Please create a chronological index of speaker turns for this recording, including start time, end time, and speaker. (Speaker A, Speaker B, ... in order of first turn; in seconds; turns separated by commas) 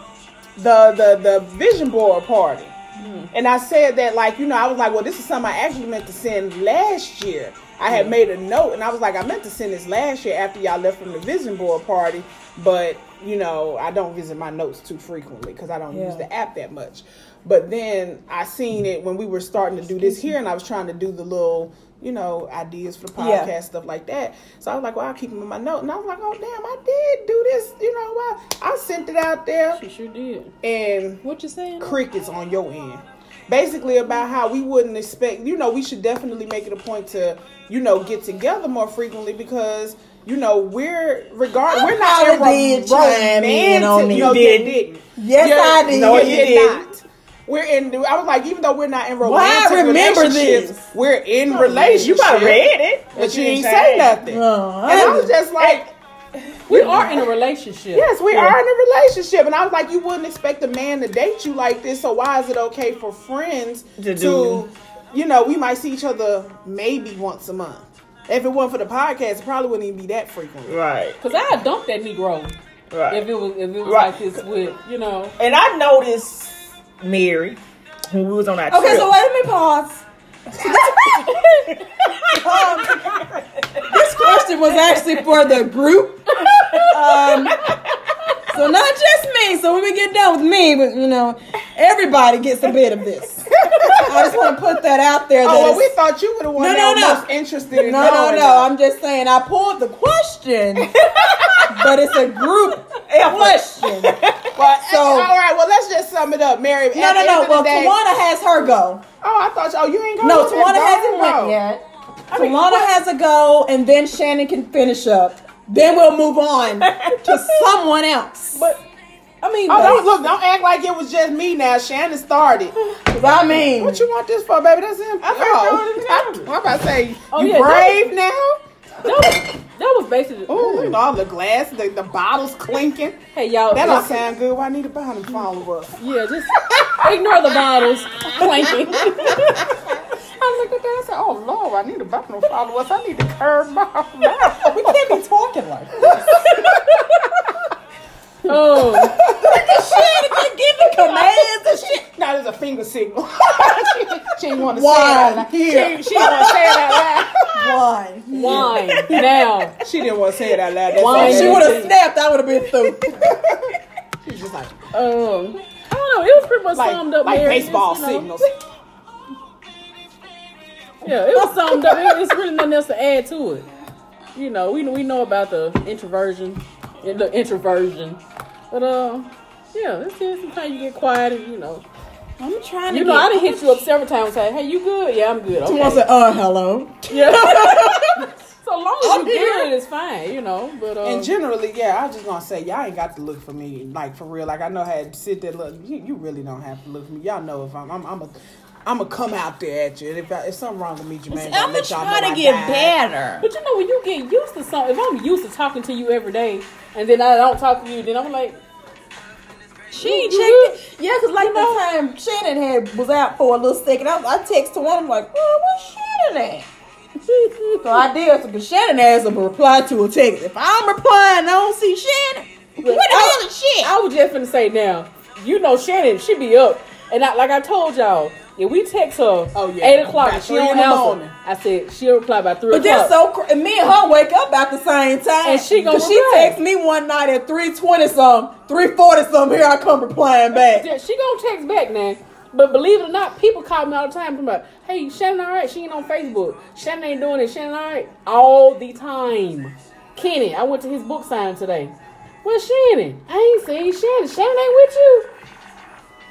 Speaker A: 0.6-2.8, Speaker B: 3.0-3.3, Speaker A: 3.3-29.8, Speaker B: 7.9-8.1, Speaker C: 15.9-16.2, Speaker C: 23.2-23.5, Speaker B: 29.7-30.5, Speaker A: 30.6-31.2, Speaker C: 31.2-31.9, Speaker A: 31.8-55.9, Speaker C: 41.7-44.4, Speaker D: 44.1-44.8, Speaker C: 45.2-46.6, Speaker D: 45.9-46.9, Speaker C: 49.2-50.9, Speaker D: 51.5-54.2, Speaker C: 54.2-55.3, Speaker D: 55.0-55.9, Speaker B: 56.7-58.5, Speaker A: 56.7-57.1, Speaker A: 57.9-70.8, Speaker D: 64.0-64.6, Speaker D: 70.7-71.2, Speaker B: 71.2-72.5, Speaker D: 72.9-73.3, Speaker B: 73.1-75.3, Speaker D: 73.8-74.3, Speaker D: 75.4-79.1, Speaker C: 78.7-81.4, Speaker B: 81.4-81.7, Speaker D: 82.1-83.9, Speaker C: 82.3-83.2, Speaker C: 83.8-87.7, Speaker C: 88.5-95.9, Speaker A: 93.7-94.1, Speaker A: 95.4-98.7, Speaker C: 96.5-100.9, Speaker D: 101.2-101.7, Speaker C: 101.7-104.1, Speaker D: 103.1-104.5, Speaker A: 104.5-108.0, Speaker C: 104.8-105.3, Speaker C: 106.9-109.0, Speaker A: 109.2-111.6, Speaker C: 110.2-118.6, Speaker B: 112.3-112.9, Speaker B: 118.5-118.8, Speaker B: 119.4-120.2, Speaker A: 119.7-122.8, Speaker C: 123.1-124.1, Speaker A: 123.7-129.1, Speaker B: 125.2-126.5, Speaker B: 127.3-128.1, Speaker B: 129.0-131.0, Speaker A: 130.5-133.2, Speaker B: 133.3-134.2, Speaker A: 133.7-136.0, Speaker B: 136.0-139.7, Speaker A: 136.6-136.9, Speaker A: 140.1-144.9, Speaker C: 144.5-146.5, Speaker A: 146.1-146.8, Speaker B: 148.4-149.2, Speaker A: 149.0-150.4, Speaker C: 149.2-152.1, Speaker A: 152.1-157.8, Speaker C: 154.6-157.0, Speaker C: 157.5-159.2, Speaker B: 158.3-159.8, Speaker A: 158.4-161.9, Speaker B: 160.9-161.9, Speaker C: 160.9-163.8, Speaker A: 163.1-164.8, Speaker B: 164.9-168.3, Speaker A: 166.7-168.5, Speaker B: 171.0-173.7, Speaker C: 171.1-172.2, Speaker B: 174.3-181.8, Speaker C: 182.4-183.8, Speaker B: 182.9-186.0, Speaker C: 185.6-188.3, Speaker B: 187.1-191.3, Speaker C: 189.0-189.7, Speaker A: 191.0-202.9, Speaker C: 201.3-203.5, Speaker B: 203.4-208.6, Speaker C: 209.9-216.7, Speaker B: 210.0-210.8, Speaker B: 211.4-211.8, Speaker B: 217.3-217.8, Speaker C: 217.8-223.9, Speaker B: 222.8-233.1, Speaker A: 229.5-231.3, Speaker C: 232.7-240.9, Speaker B: 235.4-236.6, Speaker B: 240.5-255.3